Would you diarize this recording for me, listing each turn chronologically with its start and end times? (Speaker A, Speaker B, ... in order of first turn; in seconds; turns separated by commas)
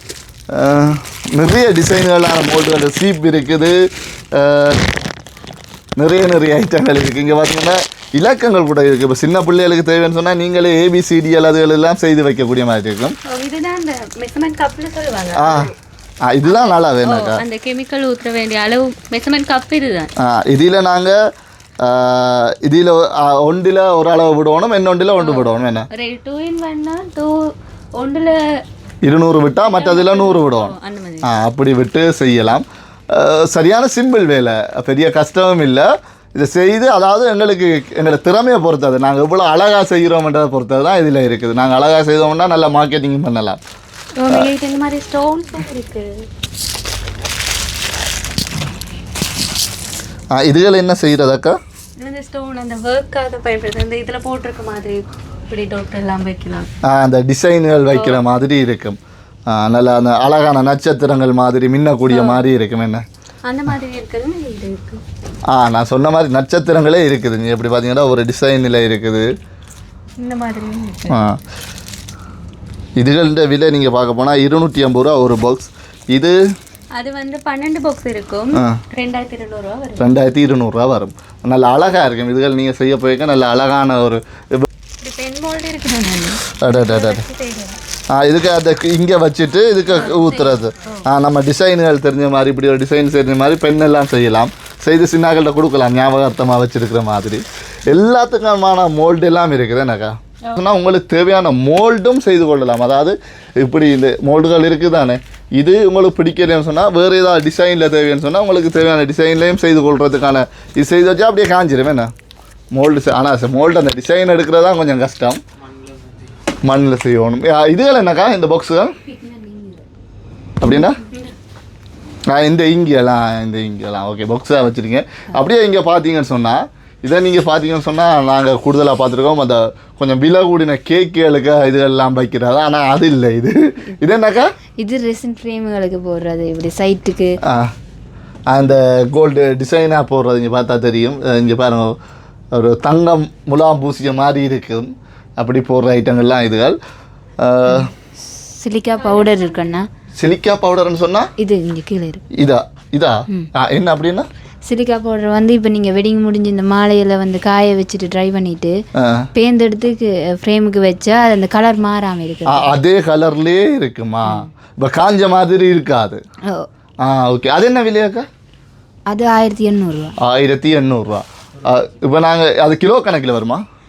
Speaker A: 0.5-4.8, Speaker A: 6.0-13.2, Speaker B: 13.3-15.7, Speaker A: 15.3-15.7, Speaker A: 16.2-17.4, Speaker B: 16.4-20.1, Speaker A: 20.2-21.2, Speaker A: 21.8-25.9, Speaker B: 25.2-28.4, Speaker A: 29.0-43.6, Speaker B: 29.6-31.3, Speaker B: 44.2-46.2, Speaker A: 50.3-51.6, Speaker B: 52.0-56.7, Speaker A: 56.8-63.0, Speaker B: 57.9-58.2, Speaker B: 62.1-62.4, Speaker B: 63.5-65.0, Speaker A: 65.5-69.3, Speaker B: 70.2-71.2, Speaker A: 71.1-71.4, Speaker A: 73.0-76.4, Speaker B: 76.9-80.1, Speaker A: 80.0-84.7, Speaker B: 85.0-87.8, Speaker A: 86.6-87.2, Speaker A: 88.1-112.1, Speaker B: 89.9-91.0, Speaker A: 112.7-115.4, Speaker A: 116.6-118.9, Speaker C: 119.3-119.8, Speaker A: 120.6-121.0, Speaker B: 120.6-121.3, Speaker A: 122.3-134.5, Speaker C: 134.8-137.4, Speaker A: 137.4-137.7, Speaker A: 138.5-141.9, Speaker A: 142.5-146.8, Speaker A: 147.4-147.9, Speaker C: 147.7-149.9, Speaker B: 149.0-149.7, Speaker A: 150.2-151.3, Speaker C: 151.4-152.2, Speaker A: 152.3-154.3, Speaker C: 154.7-158.8, Speaker A: 158.9-159.3, Speaker C: 159.3-162.7, Speaker A: 162.5-166.2, Speaker A: 167.0-168.3, Speaker C: 169.1-170.1, Speaker A: 170.2-173.6